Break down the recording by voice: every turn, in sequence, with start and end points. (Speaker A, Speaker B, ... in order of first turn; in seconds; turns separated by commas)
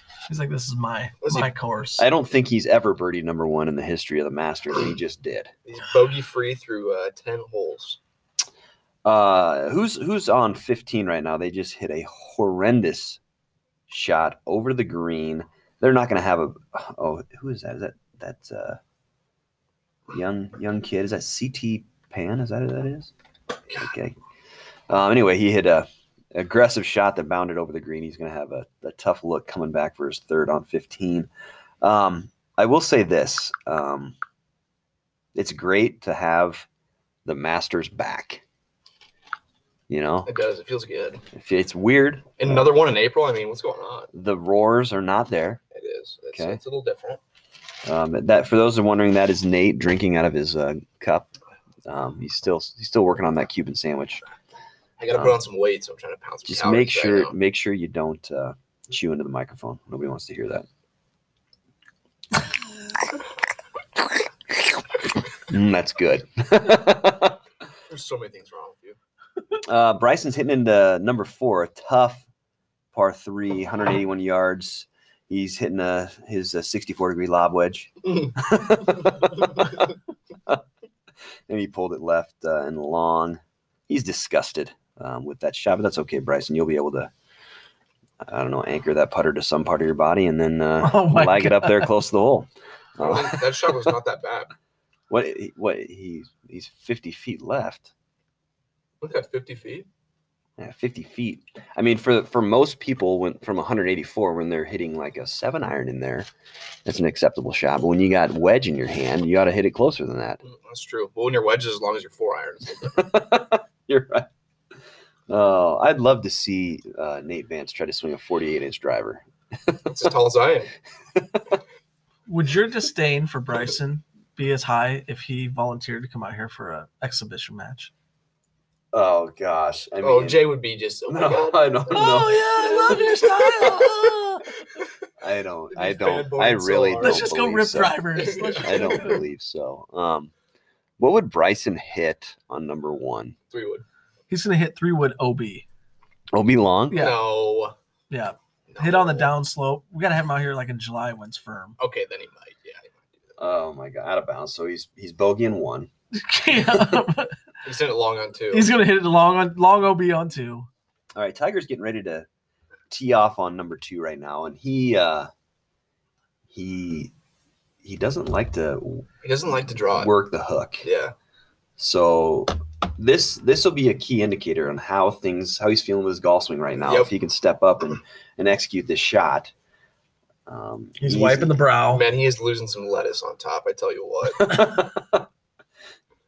Speaker A: 0.3-2.1, Speaker B: 1.2-1.5, Speaker C: 2.0-5.5, Speaker B: 5.7-8.0, Speaker C: 9.0-13.2, Speaker C: 13.9-18.8, Speaker C: 20.1-23.1, Speaker C: 23.7-24.1, Speaker C: 24.9-31.3, Speaker C: 31.8-34.1, Speaker C: 35.3-36.7, Speaker C: 37.2-38.4, Speaker C: 39.9-40.3, Speaker B: 40.2-41.2, Speaker C: 41.3-42.5, Speaker B: 42.4-44.1, Speaker C: 44.1-45.6, Speaker B: 45.7-47.2, Speaker C: 46.3-46.6, Speaker C: 47.8-51.3, Speaker C: 51.9-54.2, Speaker B: 55.0-57.3, Speaker C: 55.1-55.4, Speaker C: 56.5-60.7, Speaker C: 65.5-67.4, Speaker B: 67.9-69.0, Speaker C: 69.6-72.2, Speaker C: 72.9-79.8, Speaker C: 81.5-87.1, Speaker C: 88.2-93.5, Speaker A: 90.8-91.9, Speaker B: 93.0-94.5, Speaker C: 95.1-97.9, Speaker B: 99.0-99.9, Speaker C: 100.6-106.3, Speaker C: 106.8-110.4, Speaker B: 110.4-113.0, Speaker C: 112.8-114.3, Speaker C: 115.3-119.9, Speaker B: 119.8-120.7, Speaker C: 121.2-121.6, Speaker A: 122.3-127.9, Speaker C: 128.9-130.5, Speaker B: 130.0-134.1, Speaker C: 131.1-132.5, Speaker A: 131.9-134.5, Speaker C: 135.2-138.1, Speaker B: 135.7-137.3, Speaker A: 137.0-139.2, Speaker B: 138.2-139.2, Speaker C: 138.6-140.3, Speaker C: 141.0-143.3, Speaker B: 143.5-143.8, Speaker A: 144.3-145.7, Speaker C: 146.3-147.1, Speaker A: 146.9-147.2, Speaker B: 146.9-147.7, Speaker A: 148.1-151.8, Speaker B: 148.7-149.3, Speaker B: 151.8-153.3, Speaker C: 153.4-155.9, Speaker A: 156.1-157.4, Speaker C: 156.5-157.0, Speaker B: 157.6-158.7, Speaker A: 158.5-160.7, Speaker C: 161.1-162.3, Speaker C: 162.9-165.3, Speaker C: 166.5-167.1, Speaker C: 167.8-169.1, Speaker B: 169.2-170.1, Speaker C: 169.9-170.8, Speaker B: 170.8-171.1, Speaker C: 171.8-179.5, Speaker B: 176.8-177.1, Speaker C: 180.5-181.6, Speaker A: 181.0-182.1, Speaker B: 181.9-184.6, Speaker C: 184.4-185.2